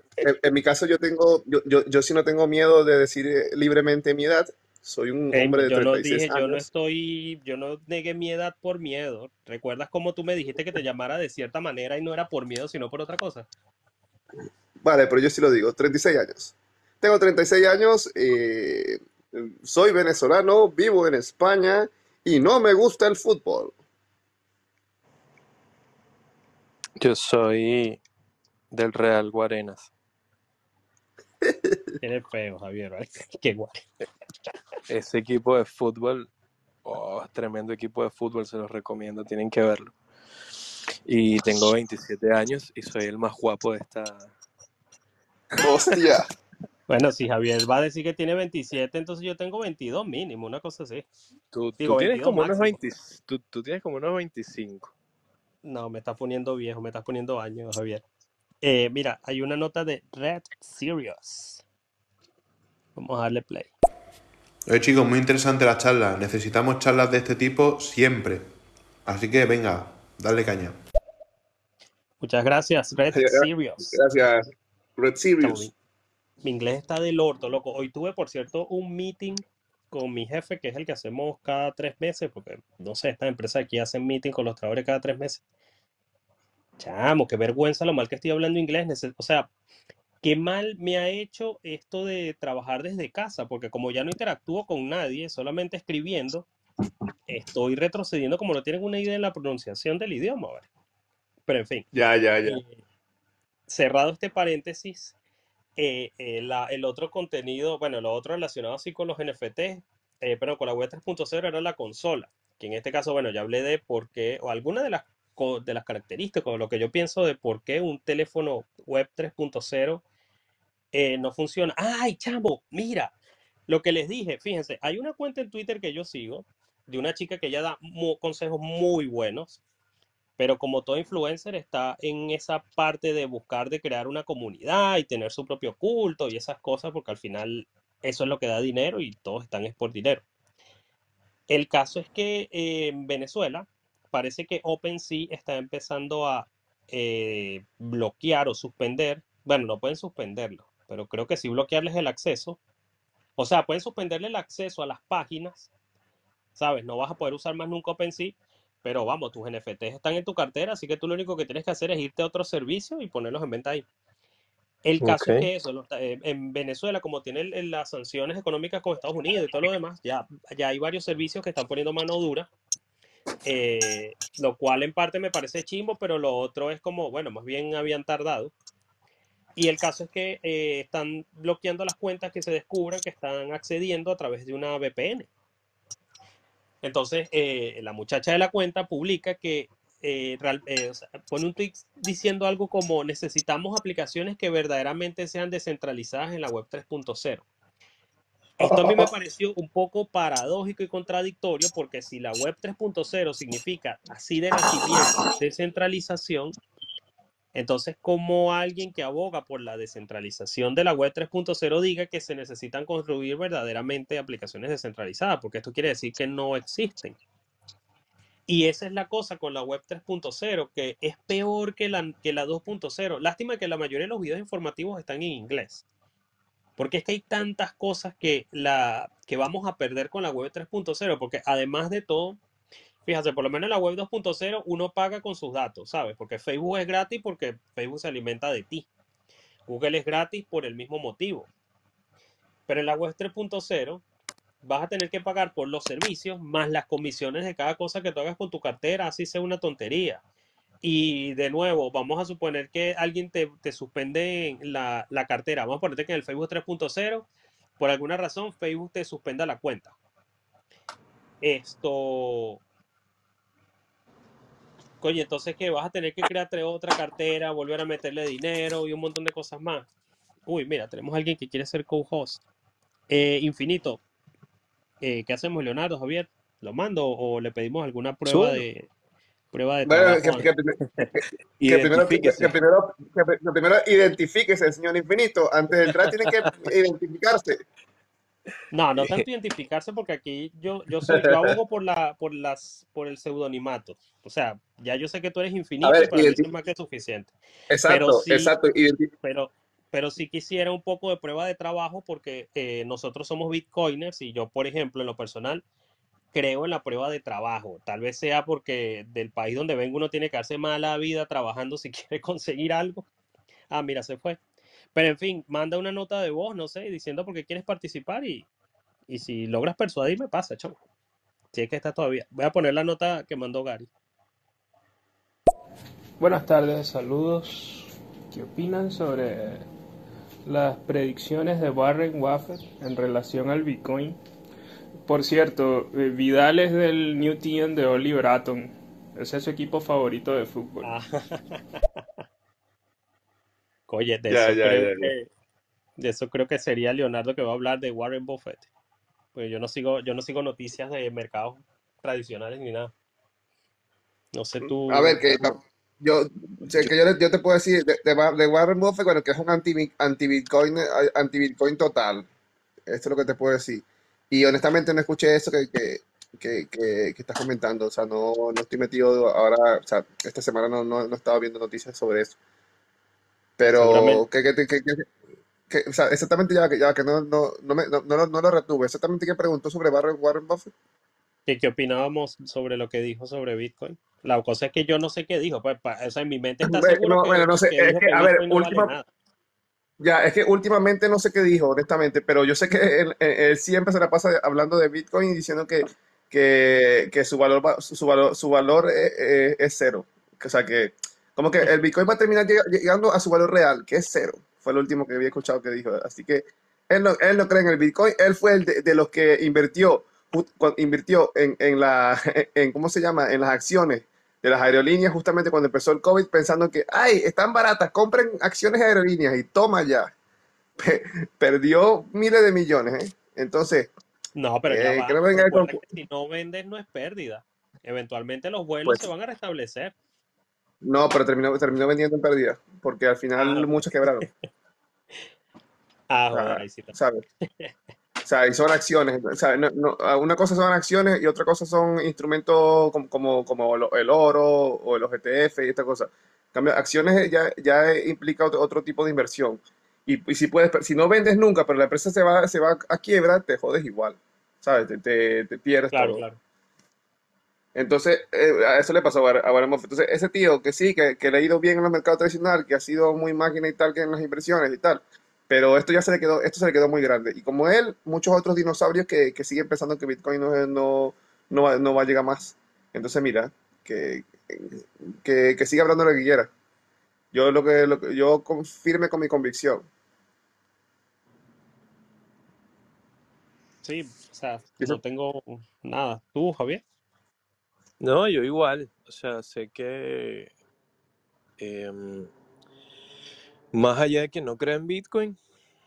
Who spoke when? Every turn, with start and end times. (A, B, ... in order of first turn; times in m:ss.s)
0:00.2-0:06.6 A
0:05.3-0:13.5 B
0:14.8-0:23.7 A
0:27.0-0:28.0 C
0:28.7-0:29.9 C
0:32.0-0:33.8 B
0:34.9-0:36.3 C
0:36.8-0:39.9 C
0:41.0-0:44.3 C
0:45.6-0:46.2 A
0:46.9-0:51.0 B
0:51.5-0:54.9 C
0:51.8-0:52.8 B
0:55.6-0:58.0 B
0:58.6-1:01.6 B
1:03.0-1:03.7 B
1:04.7-1:08.4 D
1:09.0-1:10.8 D
1:12.2-1:13.9 B
1:13.1-1:15.7 A
1:15.4-1:15.7 B
1:16.4-1:25.4 B
1:26.8-1:29.5 B
1:30.2-1:36.4 B
1:37.3-1:40.6 B
1:41.5-1:41.9 B
1:41.9-1:42.6 A
1:42.4-1:42.8 B
1:43.7-1:45.1 B
1:45.8-2:00.0 B
2:00.9-2:03.1 B
2:03.7-2:09.6 B
2:10.4-2:20.2 B
2:21.5-2:32.6 B
2:33.4-2:35.7 B
2:36.6-2:43.8 B
2:44.8-2:52.5 B
2:45.0-2:45.5 C
2:53.4-2:58.5 B
2:59.6-3:05.3 B
3:06.8-3:17.4 B
3:18.6-3:26.6 B
3:18.6-3:19.1 A
3:27.5-3:37.2 B
3:38.5-3:45.8 B
3:46.8-3:52.4 B
3:53.0-3:58.9 B
3:59.7-4:01.5 B
4:02.7-4:04.0 B
4:04.6-4:10.2 B
4:10.8-4:17.2 B
4:17.8-4:19.9 B
4:21.4-4:22.6 B
4:25.0-4:29.9 B
4:30.4-4:32.4 B
4:33.1-4:34.0 B
4:35.0-4:38.9 B
4:38.2-4:38.6 C
4:39.5-4:41.1 B
4:39.8-4:47.6 A
4:41.6-4:42.6 C
4:48.7-4:57.3 B
4:55.8-4:56.4 A
4:57.7-4:59.1 A
4:57.9-4:58.5 B
4:59.2-5:05.6 B
5:06.3-5:13.0 B
5:13.7-5:14.4 B
5:14.9-5:18.5 B
5:19.1-5:20.8 B
5:21.5-5:23.9 B
5:26.2-5:29.7 E
5:30.4-5:34.2 E
5:35.0-5:40.9 E
5:40.8-5:41.8 B
5:43.9-5:45.3 B
5:44.3-5:45.1 A
5:46.0-5:48.7 B
5:49.3-5:52.9 B
5:54.3-5:55.6 B
5:54.9-6:02.3 A
6:02.9-6:12.4 A
6:13.6-6:15.0 A
6:13.7-6:14.2 B
6:15.7-6:20.7 A
6:21.5-6:29.1 B
6:26.6-6:28.9 A
6:30.0-7:00.1 A
7:00.8-7:03.9 A
7:04.4-7:09.9 B
7:04.7-7:05.8 A
7:10.8-7:14.3 A
7:13.4-7:13.7 B
7:16.1-7:16.9 B
7:16.3-7:17.2 A
7:18.2-7:36.2 A
7:35.9-7:36.4 B
7:37.7-7:56.5 A
7:57.3-7:59.9 A
8:03.8-8:06.8 B
8:08.0-8:10.5 C
8:11.6-8:12.3 C
8:13.7-8:15.4 C